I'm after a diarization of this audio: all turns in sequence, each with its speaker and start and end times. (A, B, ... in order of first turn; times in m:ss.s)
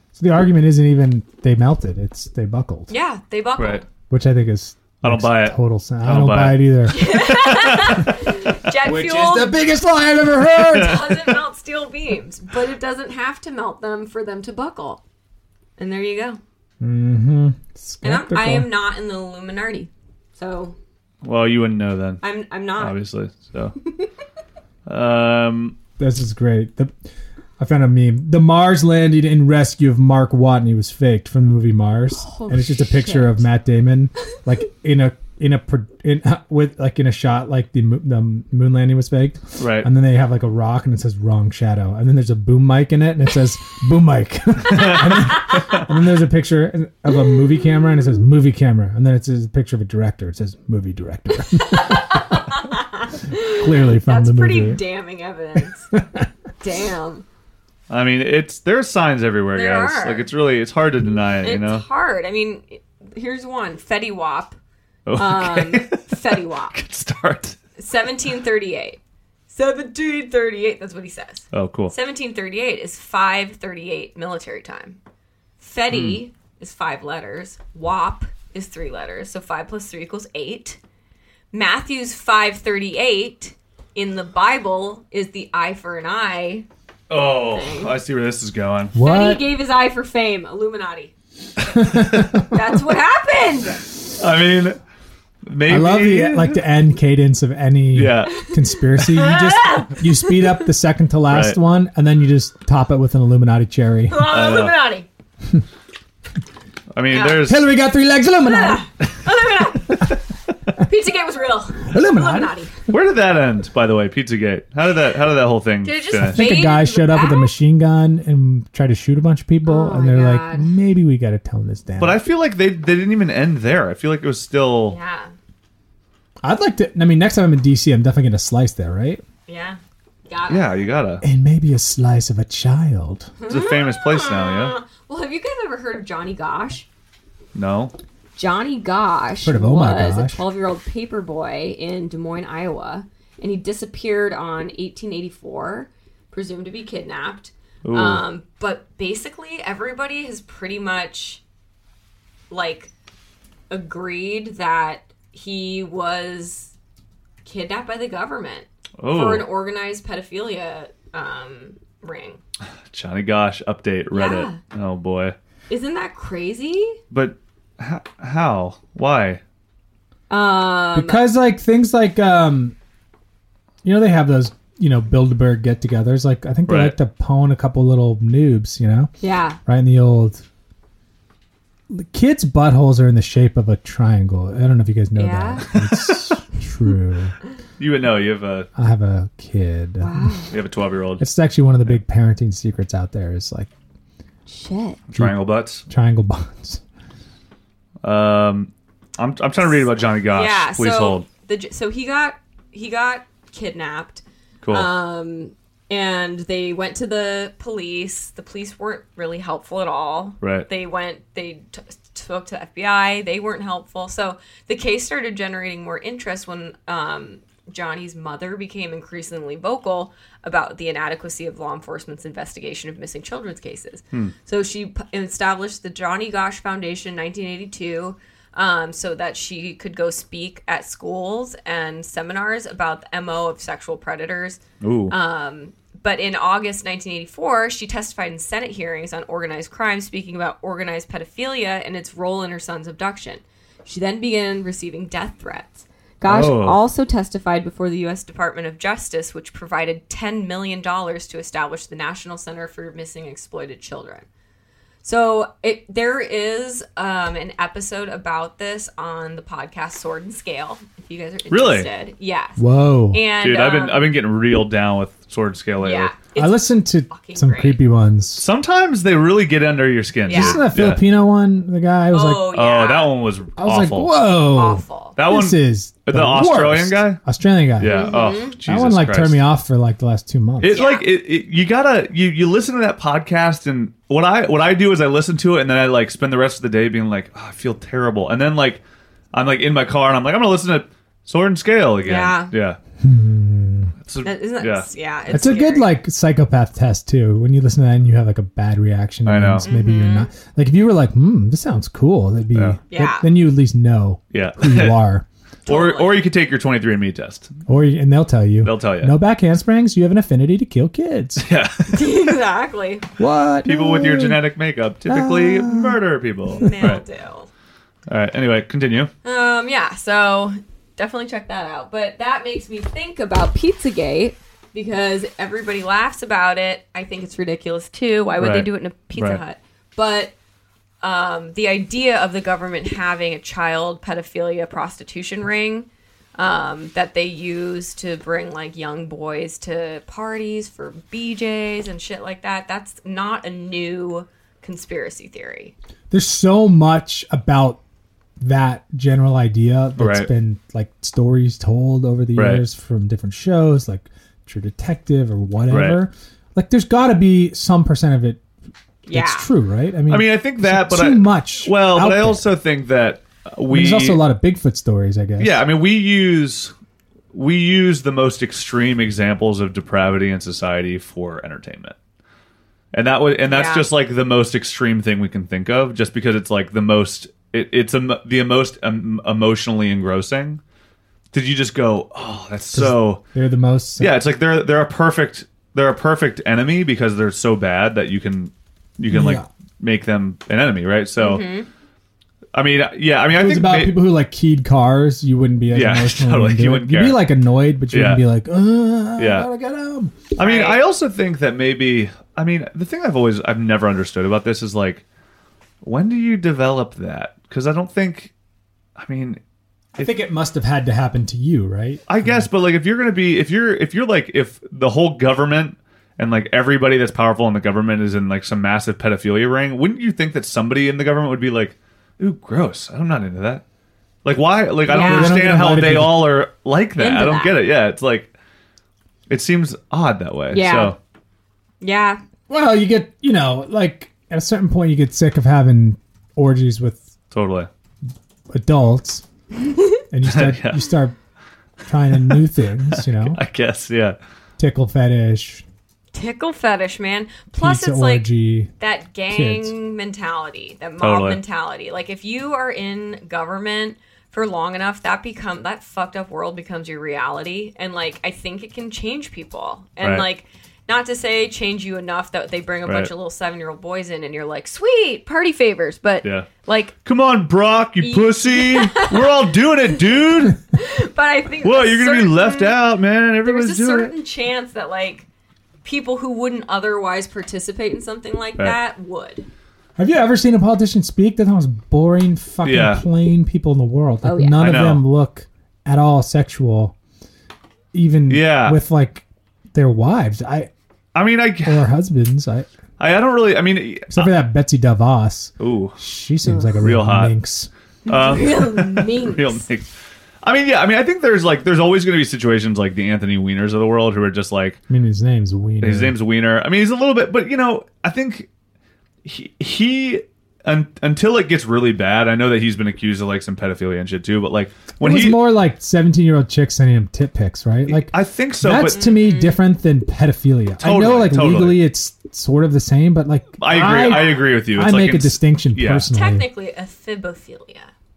0:00.1-0:02.9 A
0:02.9-0:03.8 B
0:03.6-0:03.8 C
0:04.1-0:07.1 A
0:05.0-0:06.7 C
0:06.9-0:09.6 B
0:07.3-0:08.0 C
0:08.8-0:11.1 A
0:10.7-0:15.0 B
0:15.8-0:16.4 B
0:16.8-0:18.7 A
0:18.0-0:20.8 B
0:21.2-0:22.2 C
0:22.2-0:23.0 B
0:22.8-0:23.8 C
0:24.8-0:25.8 C
0:26.0-0:27.0 A
0:27.6-0:52.4 A
0:32.2-0:33.4 B
0:39.6-0:39.9 C
0:44.7-0:45.8 C
0:51.5-0:55.9 B
0:53.5-0:54.8 A
0:55.9-0:56.3 A
0:56.6-0:57.2 B
0:57.9-1:01.8 C
0:59.5-1:00.3 B
1:01.4-1:04.6 B
1:05.0-1:07.6 C
1:05.2-1:06.8 B
1:07.8-1:09.0 B
1:09.5-1:15.0 B
1:11.5-1:11.9 C
1:15.6-1:20.8 B
1:15.9-1:16.2 C
1:21.5-1:26.6 B
1:27.1-1:28.9 C
1:27.4-1:28.0 B
1:28.9-1:29.4 A
1:29.0-1:31.1 B
1:31.8-1:32.5 A
1:32.4-1:33.8 B
1:34.1-1:34.8 C
1:35.5-1:36.6 C
1:35.7-1:44.3 A
1:37.9-1:38.3 C
1:38.3-1:40.6 B
1:41.3-1:41.6 C
1:44.1-1:45.1 B
1:44.3-1:44.8 C
1:46.9-1:47.6 C
1:47.1-1:47.5 B
1:47.4-1:48.9 A
1:48.4-1:50.1 B
1:50.8-1:52.8 B
1:51.8-1:52.5 A
1:52.9-1:56.5 C
1:55.8-1:57.5 B
1:56.2-2:02.2 A
1:59.6-2:00.7 B
2:02.0-2:05.0 C
2:04.9-2:05.3 B
2:06.4-2:09.2 A
2:09.5-2:10.8 B
2:10.5-2:11.2 C
2:11.2-2:13.3 A
2:13.4-2:16.9 B
2:13.5-2:14.8 C
2:17.5-2:17.9 C
2:18.4-2:31.4 B
2:19.4-2:20.4 A
2:27.8-2:28.2 C
2:32.5-2:32.9 B
2:33.7-2:36.7 B
2:37.4-2:42.4 B
2:39.0-2:39.5 C
2:42.9-2:45.3 C
2:44.1-2:44.6 B
2:45.7-2:47.0 B
2:47.1-2:49.4 C
2:50.3-2:51.2 B
2:50.9-2:52.7 A
2:53.8-2:59.1 A
2:56.7-2:57.0 C
2:59.2-2:59.6 B
2:59.6-3:00.4 A
3:01.9-3:07.4 A
3:05.1-3:05.7 B
3:05.7-3:06.3 C
3:07.8-3:08.7 C
3:08.8-3:10.3 A
3:10.0-3:10.5 B
3:10.5-3:11.2 C
3:11.2-3:13.7 A
3:14.5-3:15.0 B
3:15.1-3:15.8 C
3:15.1-3:16.8 A
3:18.0-3:21.2 C
3:20.3-4:14.2 B
3:24.6-3:24.9 C
3:30.4-3:30.7 C
3:54.8-3:55.1 C
4:06.2-4:06.8 C
4:15.0-4:22.6 B
4:21.5-4:21.9 C
4:22.6-4:23.2 A
4:23.1-4:24.1 B
4:23.4-4:26.2 C
4:25.8-4:27.8 B
4:26.4-4:28.4 A
4:28.4-4:31.0 C
4:30.2-4:30.6 B
4:30.3-4:32.5 A
4:32.1-4:33.1 B
4:32.5-4:34.1 C
4:33.6-4:40.8 A
4:34.5-4:35.2 B
4:35.2-4:37.2 C
4:37.8-4:39.4 C
4:37.8-4:38.6 B
4:40.6-4:48.8 C
4:40.7-4:41.1 B
4:49.3-4:52.8 C
4:52.0-4:52.5 B
4:53.0-4:53.9 A
4:54.0-4:54.9 C
4:54.2-4:55.9 B
4:55.3-5:05.2 A
4:59.2-4:59.6 C
4:59.6-5:00.3 B
5:02.9-5:03.3 B
5:04.3-5:05.0 C
5:05.6-5:06.2 B
5:05.7-5:07.5 C
5:07.7-5:11.4 A
5:08.6-5:09.1 C
5:11.4-5:12.1 C
5:11.9-5:13.1 B
5:13.2-5:14.4 A
5:13.6-5:17.0 C
5:15.1-5:16.0 A
5:16.5-5:17.5 B
5:18.1-5:19.1 C
5:19.2-5:30.3 B
5:28.4-5:29.4 C
5:31.0-5:45.7 B
5:46.1-5:47.8 A
5:48.4-5:58.4 A
5:50.0-5:50.3 C
5:52.4-5:52.6 C
5:55.7-5:56.0 C
5:59.0-5:59.5 B
5:59.1-6:02.5 A
6:00.1-6:04.2 C
6:03.7-6:05.6 A
6:05.4-6:06.7 C
6:07.3-6:11.9 C
6:12.9-6:20.6 C
6:13.4-6:13.9 B
6:21.3-6:23.2 C
6:22.7-6:24.1 A
6:24.0-6:31.4 C
6:29.1-6:29.5 A
6:31.2-6:31.7 B
6:32.5-6:34.0 C
6:33.3-6:40.3 A
6:35.7-6:37.2 C
6:37.9-6:38.2 C
6:39.2-6:39.5 C
6:40.4-6:45.0 C
6:40.4-6:40.8 B
6:45.8-6:48.3 C
6:49.0-6:49.4 C
6:50.0-6:52.5 A
6:52.1-7:03.6 C
7:04.2-7:08.3 C
7:04.9-7:05.4 B
7:05.0-7:06.4 A
7:07.0-7:07.6 B
7:09.3-7:11.0 C
7:10.5-7:10.9 B
7:11.8-7:12.2 B
7:12.5-7:17.1 A
7:17.3-7:17.7 C
7:18.5-7:19.2 A
7:20.1-7:21.1 A
7:20.2-7:20.8 C
7:21.8-7:23.4 A
7:22.9-7:24.2 C
7:24.6-7:25.6 A
7:26.1-7:28.3 B
7:27.6-7:28.7 A
7:28.8-7:46.9 B
7:29.3-7:29.7 A
7:31.0-7:31.4 C
7:42.8-7:43.1 C
7:47.0-7:50.6 C
7:48.0-7:49.3 B
7:50.7-7:52.8 B
7:51.6-7:54.1 C
7:53.4-7:55.2 B
7:55.8-7:59.5 B
8:00.0-8:06.9 A
8:02.6-8:03.0 C
8:04.2-8:04.6 B
8:04.6-8:05.0 C
8:07.9-8:10.7 A
8:08.3-8:08.8 C
8:11.1-8:11.9 C
8:11.6-8:12.7 A
8:13.0-8:14.3 C
8:14.1-8:17.7 A
8:15.6-8:16.0 C
8:16.8-8:17.3 C
8:18.0-8:19.6 B
8:18.1-8:19.9 C
8:20.4-8:24.8 C
8:24.9-8:26.1 A
8:25.8-8:28.5 C
8:29.2-8:35.4 C
8:35.0-8:46.5 A
8:37.9-8:39.0 C
8:38.9-8:39.6 B
8:40.8-8:41.8 C
8:43.6-8:46.1 C
8:44.0-8:44.5 B
8:46.1-8:47.9 B